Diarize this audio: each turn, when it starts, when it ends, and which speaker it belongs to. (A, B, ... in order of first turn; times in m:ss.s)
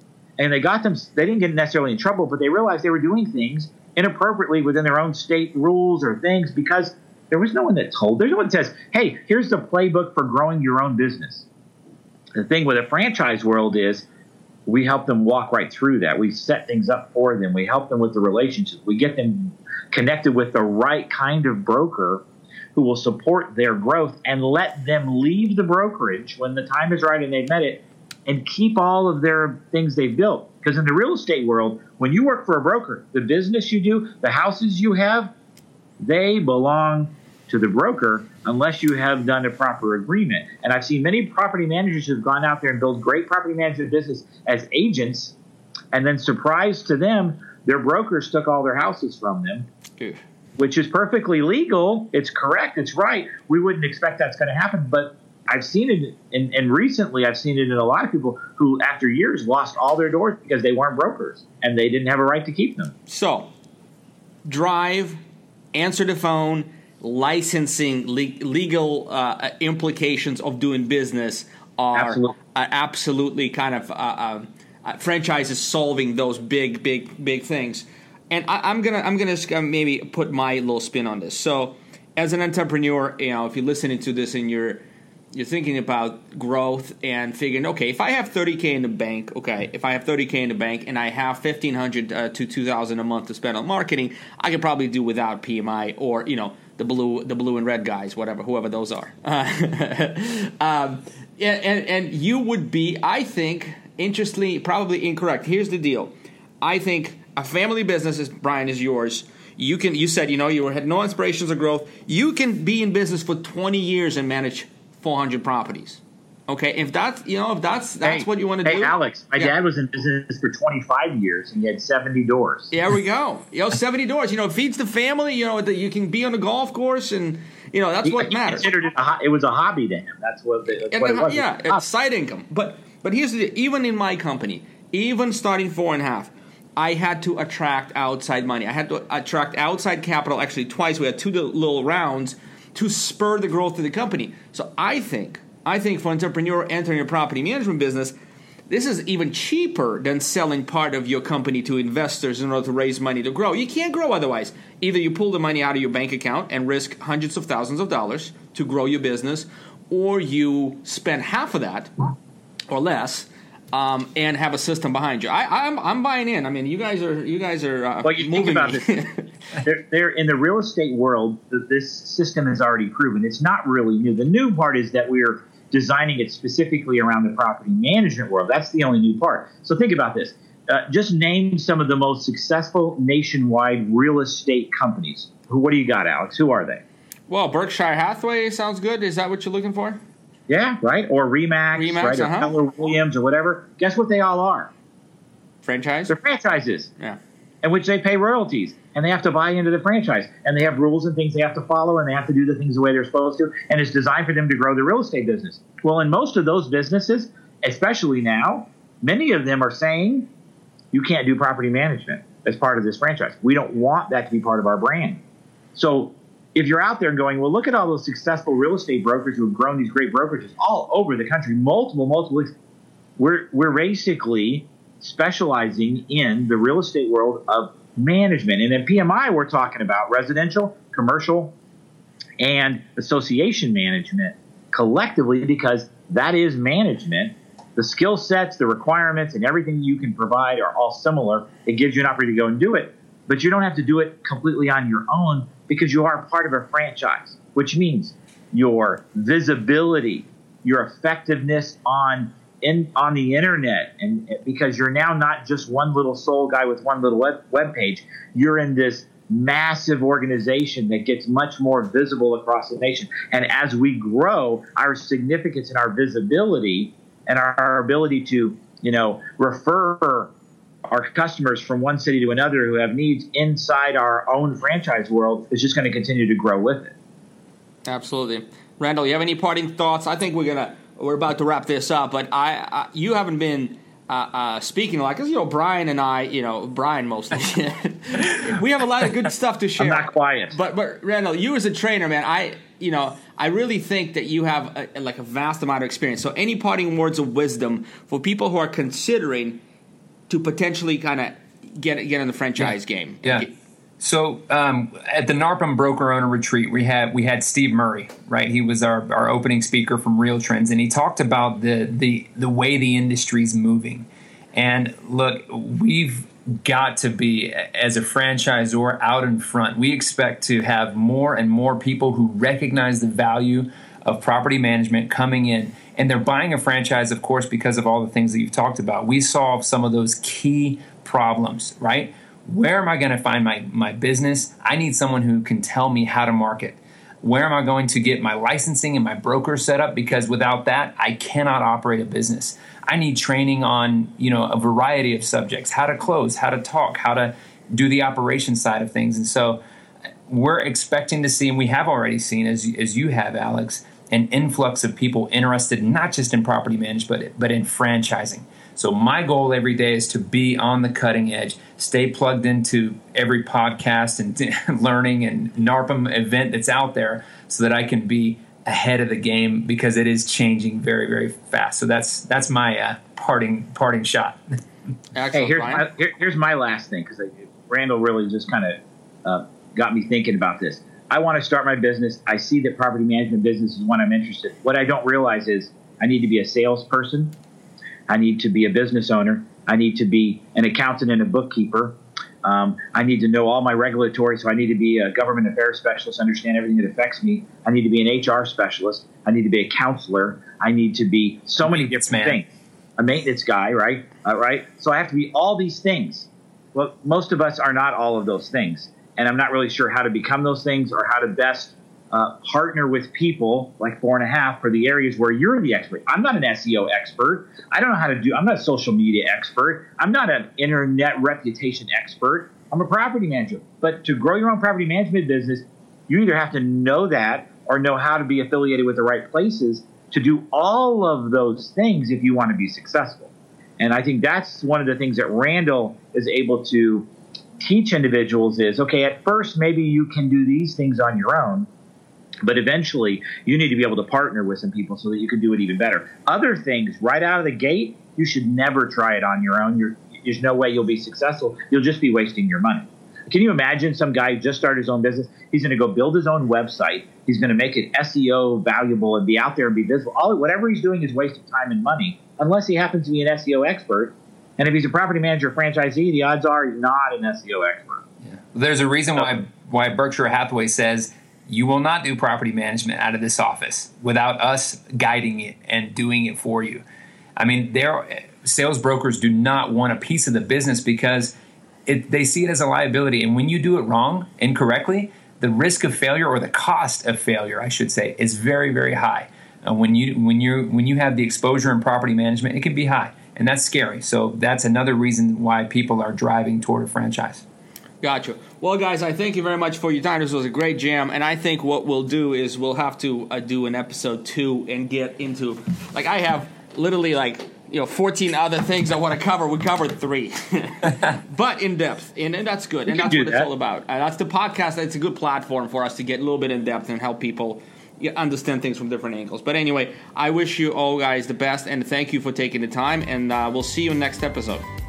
0:00.4-0:11.4 A
0:12.4-0:14.0 A
0:14.7-0:22.2 A
0:22.7-0:35.3 A
0:36.0-0:45.4 A
0:45.9-0:49.7 A
0:50.6-1:02.9 A
1:03.1-1:03.5 B
1:04.4-1:05.2 B
1:05.7-1:59.5 B
1:11.9-1:12.3 A
1:58.0-2:02.7 A
2:02.7-2:08.7 B
2:08.0-2:11.8 A
2:10.9-2:28.1 B
2:28.7-2:41.9 B
2:42.7-2:49.3 B
2:48.0-2:49.0 A
2:49.6-3:06.8 A
3:07.3-3:10.0 B
3:10.5-3:14.7 A
3:11.7-3:12.6 B
3:15.6-3:16.2 B
3:16.1-3:16.9 A
3:17.6-3:30.3 A
3:30.9-3:35.2 A
3:35.7-3:42.5 A
3:43.2-3:51.5 A
3:52.4-4:30.3 A
4:30.9-4:36.9 A
4:37.9-4:59.6 B
4:49.8-4:50.6 A
5:00.3-5:03.5 B
5:03.2-5:03.5 C
5:04.0-5:49.6 C
5:50.3-6:14.4 C
6:15.1-6:15.9 B
6:15.3-6:27.4 A
6:28.1-7:17.1 A
6:41.6-6:42.4 C
7:17.6-7:21.7 A
7:22.4-7:48.0 A
7:48.3-7:56.8 C
7:57.4-8:01.3 C
8:01.9-8:17.4 C
8:18.0-8:44.7 B
8:32.9-8:33.5 A